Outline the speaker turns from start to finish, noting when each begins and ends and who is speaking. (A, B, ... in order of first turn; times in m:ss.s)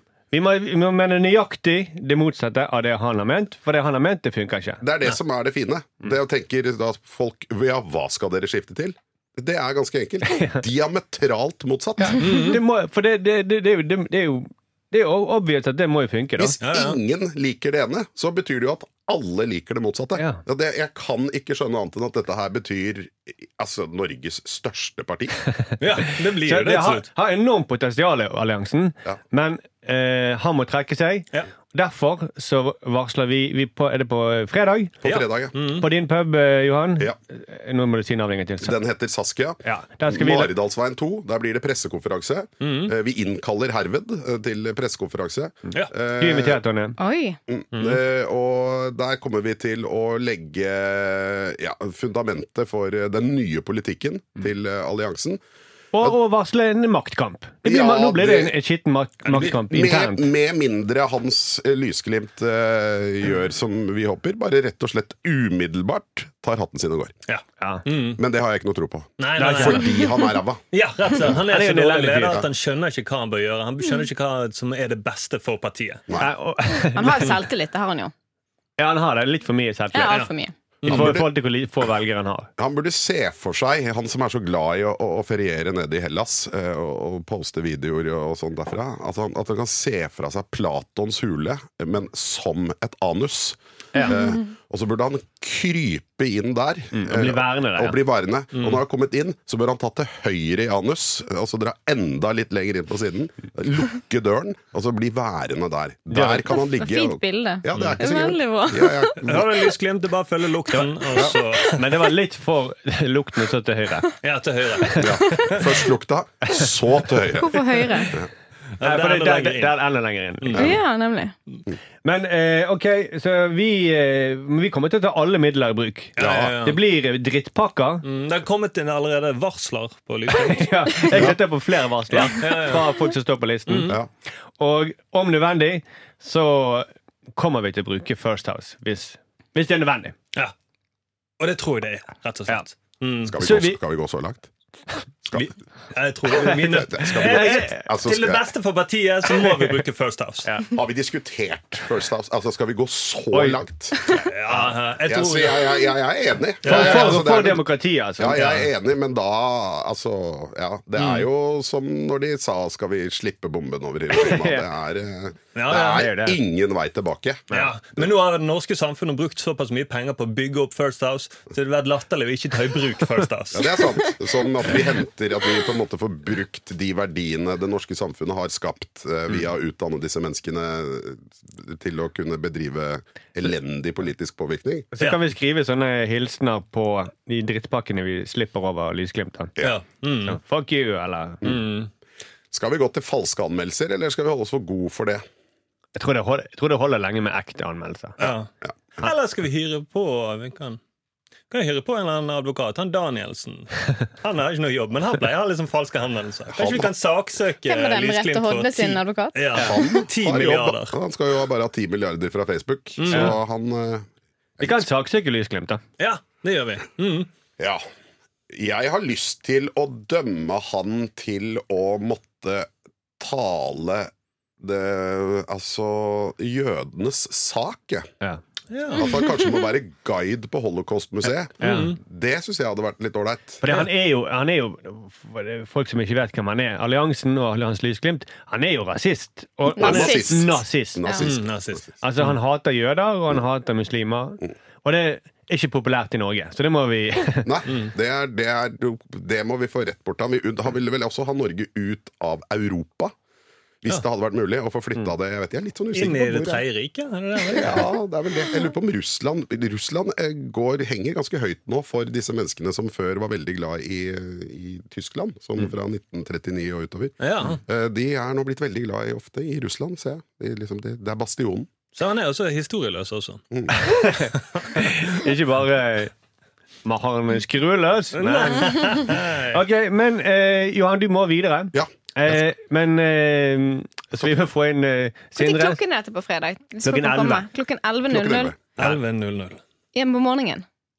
0:00.3-0:04.8 A
0:04.8-0:12.5 B
0:10.3-0:10.6 A
0:12.0-0:16.6 A
0:12.2-0:12.6 C
0:16.4-0:25.4 B
0:16.6-0:17.0 C
0:20.2-0:20.4 A
0:25.8-0:27.1 C
0:26.3-0:35.0 A
0:35.0-0:35.6 B
0:35.0-0:35.8 C
0:35.8-0:38.8 A
0:38.6-0:46.6 B
0:39.6-0:40.5 A
0:42.6-0:42.9 C
0:46.2-0:47.0 A
0:47.0-0:47.4 D
0:47.5-0:55.4 B
0:47.7-0:48.0 C
0:55.9-1:00.2 A
0:57.6-0:58.5 B
0:59.2-0:59.6 C
0:59.6-1:07.1 B
1:07.3-1:08.2 C
1:08.2-1:10.6 B
1:09.2-1:09.9 C
1:09.4-1:09.9 A
1:10.7-1:16.0 C
1:11.4-1:12.4 A
1:16.2-1:17.3 A
1:16.8-1:18.1 D
1:18.8-1:20.2 A
1:19.9-1:20.5 D
1:20.8-1:21.2 C
1:20.8-1:22.5 A
1:20.9-1:21.3 B
1:22.6-1:49.5 B
1:33.9-1:34.2 A
1:36.9-1:38.0 A
1:38.5-1:38.8 C
1:46.1-1:46.4 A
1:46.5-1:49.1 D
1:49.2-1:52.1 C
1:50.7-1:54.1 A
1:54.2-1:55.8 C
1:54.8-1:55.1 A
1:55.0-1:57.5 B
1:57.4-1:58.1 D
1:58.8-1:59.8 C
1:58.8-2:00.7 A
2:00.5-2:01.4 D
2:02.0-2:08.0 A
2:06.2-2:06.8 C
2:08.0-2:11.3 C
2:10.3-2:14.0 A
2:11.1-2:11.4 B
2:12.1-2:12.9 C
2:13.7-2:14.0 C
2:14.6-2:20.1 A
2:21.4-2:23.4 C
2:23.3-2:24.5 B
2:23.4-2:23.8 A
2:25.9-2:30.5 C
2:26.4-2:27.8 A
2:26.4-2:28.4 B
2:30.7-2:37.6 B
2:33.3-2:33.6 A
2:34.3-2:35.8 C
2:36.6-2:37.2 C
2:36.6-2:38.4 A
2:38.2-2:48.1 B
2:38.3-2:38.7 C
2:41.0-2:41.3 C
2:44.2-2:44.6 A
2:45.5-2:46.1 C
2:45.9-2:46.4 A
2:47.5-2:53.8 C
2:53.5-3:04.9 B
3:04.9-3:09.6 A
3:09.6-3:10.4 C
3:10.2-3:11.6 A
3:11.4-3:11.9 C
3:12.5-3:15.2 B
3:15.9-3:18.2 A
3:18.2-3:20.8 C
3:18.6-3:19.1 B
3:21.5-3:31.0 C
3:26.5-3:26.9 B
3:27.6-3:29.8 D
3:29.6-3:34.1 B
3:33.0-3:33.4 C
3:34.6-3:34.8 B
3:34.6-3:35.8 A
3:36.0-3:37.3 C
3:38.5-3:48.1 B
3:48.7-3:49.1 C
3:48.9-3:53.6 B
3:51.6-3:51.9 A
3:51.6-3:52.0 C
3:53.6-4:01.1 A
3:59.7-4:00.4 D
3:59.8-4:01.9 B
4:01.2-4:02.3 C
4:02.0-4:07.5 A
4:07.4-4:13.1 B
4:13.8-4:16.6 B
4:15.9-4:17.9 C
4:17.5-4:31.7 B
4:27.2-4:27.6 C
4:31.9-4:33.4 C
4:33.8-4:36.1 A
4:36.8-4:45.8 A
4:38.1-4:39.6 C
4:41.7-4:42.4 B
4:45.4-4:48.5 D
4:46.8-4:47.5 A
4:48.1-4:48.6 B
4:48.8-4:49.6 C
4:49.9-4:50.6 D